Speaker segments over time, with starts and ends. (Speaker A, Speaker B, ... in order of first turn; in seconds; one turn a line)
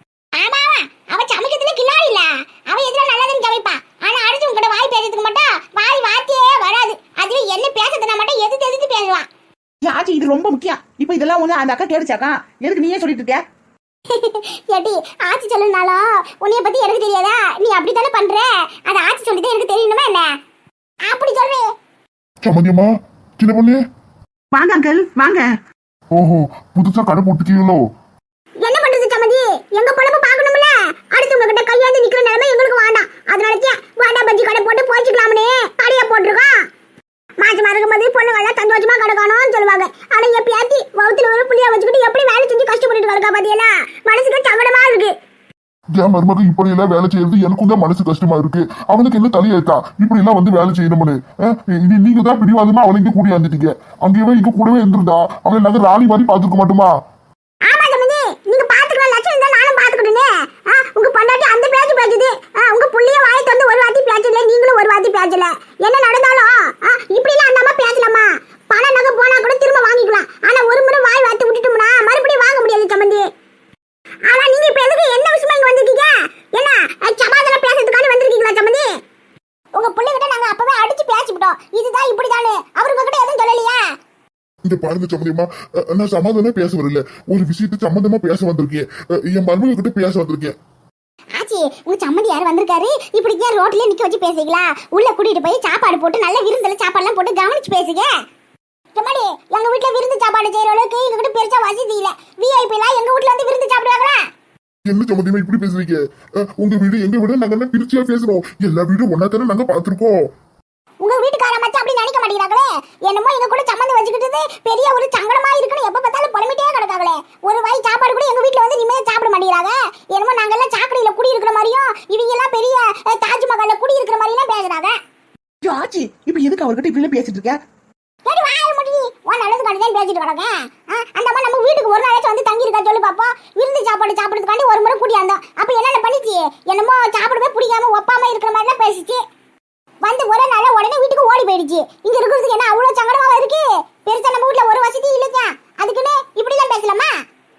Speaker A: 0.4-9.3
Speaker B: 9.8-13.4
Speaker A: 14.1-20.3
Speaker A: 21.1-21.6
Speaker C: 22.4-23.8
Speaker B: 24.5-25.5
Speaker C: 26.1-27.8
Speaker A: 28.6-36.5
Speaker A: 37.4-45.1
Speaker C: 46.0-56.9
Speaker A: 57.7-73.2
Speaker A: 74.3-78.9
Speaker A: 79.8-83.8
Speaker C: 84.7-90.5
Speaker A: 91.4-98.1
Speaker A: 99.0-104.2
Speaker C: 104.9-110.2
Speaker A: 111.0-125.0
Speaker B: 125.6-127.6
Speaker A: 128.3-139.2
Speaker A: 140.0-147.1